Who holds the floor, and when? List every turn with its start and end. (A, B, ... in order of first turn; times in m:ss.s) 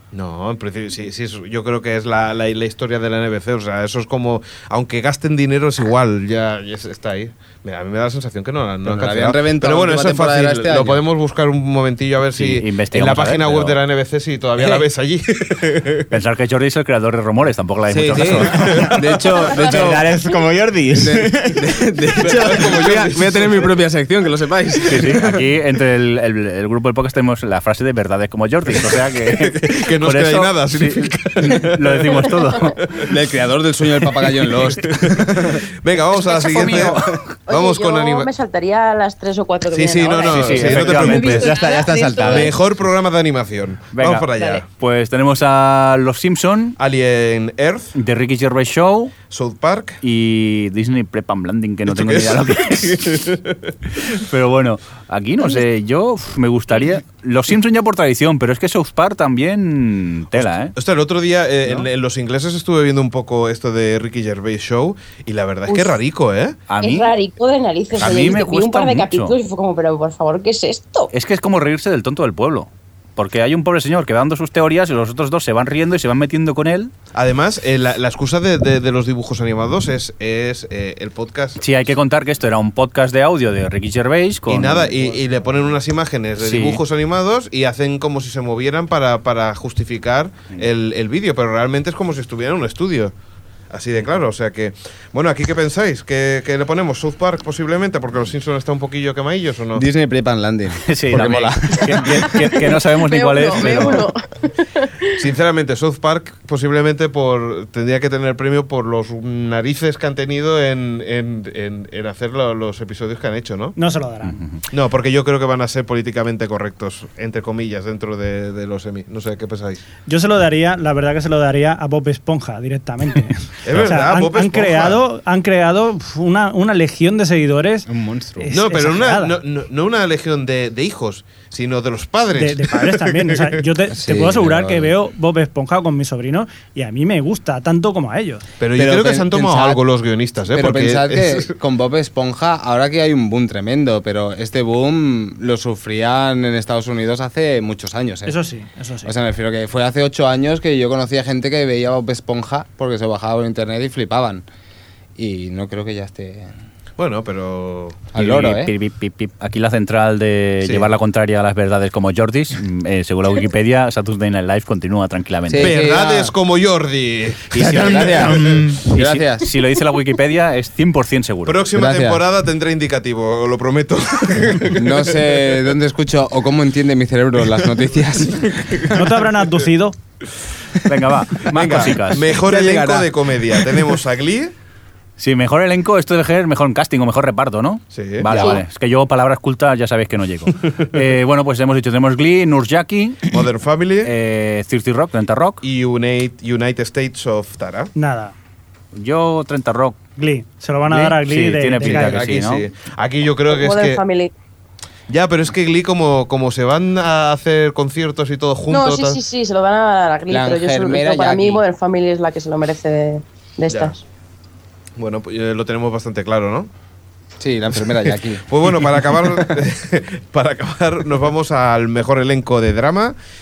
0:00.1-0:16.1 A
0:08.8-0:11.0 B
0:12.3-0:13.8 C
0:16.1-0:19.3 C
0:17.9-0:20.1 B
0:18.6-0:18.9 D
0:19.6-0:21.6 D
0:21.0-0:25.4 B
0:22.2-0:23.7 A
0:24.9-0:33.0 C
0:28.8-0:33.1 A
0:33.0-0:35.6 B
0:34.5-0:38.3 A
0:36.1-0:37.3 C
0:37.5-0:42.5 E
0:39.7-0:41.6 A
0:40.2-0:41.5 C
0:40.6-0:42.6 D
0:42.3-0:44.6 A
0:43.9-0:46.8 C
0:46.8-0:47.9 A
0:47.9-0:49.1 C
0:49.3-0:50.0 A
0:50.0-0:53.3 C
0:51.9-0:53.7 A
0:54.0-1:00.7 C
1:00.7-1:06.6 A
1:05.7-1:06.0 E
1:06.7-1:07.1 C
1:06.8-1:11.1 E
1:08.0-1:09.3 C
1:11.1-1:16.9 C
1:17.1-1:21.6 A
1:21.6-1:25.0 C
1:24.5-1:33.1 A
1:26.4-1:26.8 C
1:33.7-1:39.8 A
1:39.7-1:42.3 B
1:40.8-1:44.1 C
1:42.3-1:45.1 E
1:45.2-1:53.8 A
1:53.8-1:54.5 F
1:54.2-1:54.6 C
1:54.7-1:59.8 A
2:00.1-2:07.9 F
2:03.6-2:05.0 A
2:07.8-2:08.5 D
2:08.4-2:09.4 F
2:08.5-2:13.6 A
2:12.3-2:18.4 F
2:13.9-2:14.9 B
2:18.6-2:21.5 A
2:18.7-2:19.8 B
2:20.5-2:28.4 B
2:28.2-2:29.1 F
2:29.0-2:34.4 B
2:35.2-2:36.5 B
2:37.0-2:38.0 A
2:38.1-2:38.7 B
2:38.1-2:45.8 C
2:40.6-2:40.9 A
2:45.5-2:46.3 B
2:45.6-2:48.4 A
2:47.5-2:48.4 C
2:47.6-2:49.5 B
2:47.7-2:48.8 D
2:48.9-2:51.6 C
2:51.4-2:55.5 A
2:51.7-2:52.2 B
2:54.7-2:59.0 B
2:58.9-3:00.0 F
3:00.8-3:02.3 C
3:01.4-3:03.8 B
3:01.5-3:04.5 A
3:05.2-3:13.4 C
3:07.9-3:08.5 A
3:08.3-3:08.6 E
3:13.3-3:14.1 A
3:14.0-3:15.6 C
3:15.6-3:17.9 A
3:17.9-3:18.3 F
3:18.9-3:20.0 C
3:20.2-3:22.3 F
3:20.8-3:22.7 C
3:21.8-3:24.0 A
3:23.5-3:24.3 E
3:25.1-3:29.2 A
3:28.7-3:34.0 E
3:30.3-3:31.6 B
3:33.7-3:34.0 A
3:35.0-3:36.7 A
3:37.4-3:39.6 B
3:38.4-3:43.1 A